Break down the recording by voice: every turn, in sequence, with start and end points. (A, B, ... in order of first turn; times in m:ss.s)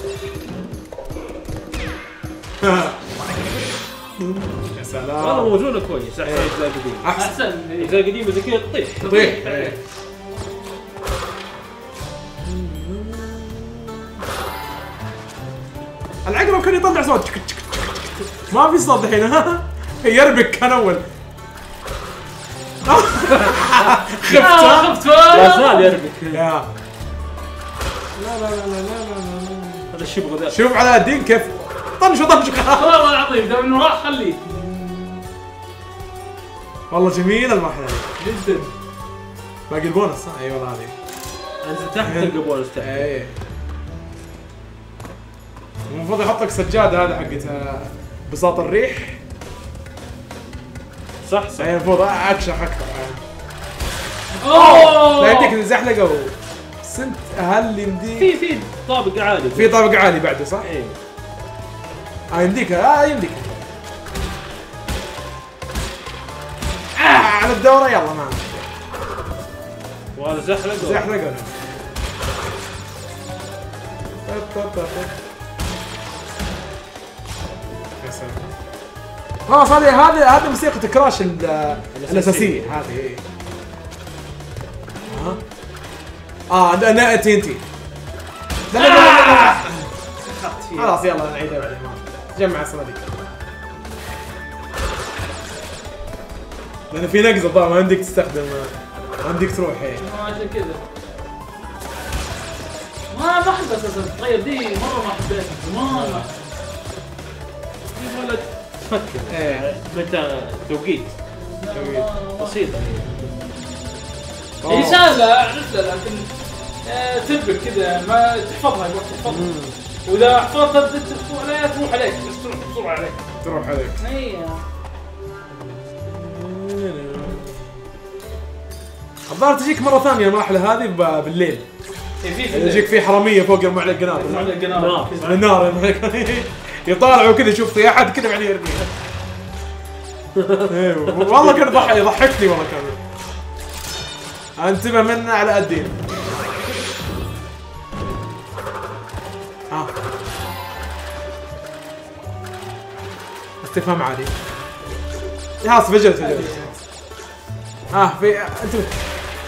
0:02.6-0:03.0 A
0:04.7-0:05.6 A
0:05.2-0:07.1 B
0:06.2-0:07.4 A
0:07.2-0:08.0 C
0:07.8-0:09.3 B
0:09.0-0:09.7 C
0:09.0-0:09.8 A
0:12.4-0:14.1 A
0:16.2-0:21.0 A
0:22.8-0:25.0 A
0:24.1-0:26.0 C
0:25.2-0:26.4 B
0:26.3-0:26.7 A
0:28.2-0:29.9 A
0:29.9-0:30.6 B
0:30.5-0:32.9 A
0:32.7-0:34.4 C
0:34.5-0:35.2 A
0:36.9-0:38.1 A
0:38.2-0:38.7 C
0:39.7-0:41.0 A
0:41.6-0:43.1 B
0:42.0-0:43.4 A
0:45.9-0:49.2 A
0:51.2-0:51.8 B
0:51.6-0:53.2 A
0:54.4-0:55.5 C
0:54.5-0:58.3 A
0:58.2-0:59.8 B
0:59.5-1:00.7 A
1:00.6-1:01.0 B
1:02.3-1:03.6 A
1:07.0-1:08.7 A
1:10.1-1:11.1 B
1:10.8-1:11.5 A
1:14.2-1:15.1 A
1:18.0-1:18.4 A
1:19.5-1:23.2 A
1:21.9-1:22.8 B
1:25.1-1:25.3 C
1:25.1-1:25.4 A
1:26.5-1:27.6 A
1:28.7-1:29.9 A
1:28.7-1:29.6 C
1:30.2-1:31.0 C
1:30.7-1:33.2 A
1:36.9-1:40.0 A
1:40.0-1:40.8 C
1:43.1-1:46.3 C
1:45.9-1:46.3 A
1:47.9-1:51.2 B
1:49.3-1:49.7 A
1:51.4-1:52.6 C
1:51.7-1:52.1 A
1:52.4-1:53.4 B
1:54.6-1:55.0 A
1:54.6-1:56.3 C
1:56.8-1:59.4 C
1:59.2-1:59.8 A
2:00.0-2:03.2 C
2:03.4-2:04.0 A
2:04.0-2:04.6 C
2:05.5-2:07.8 A
2:09.3-2:11.6 A
2:12.2-2:13.0 C
2:12.5-2:14.6 A
2:14.1-2:15.4 C
2:14.3-2:15.4 B
2:15.2-2:18.8 A
2:20.4-2:20.7 B
2:20.7-2:23.0 A
2:24.6-2:26.0 A
2:33.6-2:34.3 A
2:35.6-2:36.8 A
2:36.2-2:36.7 C
2:37.9-2:38.9 A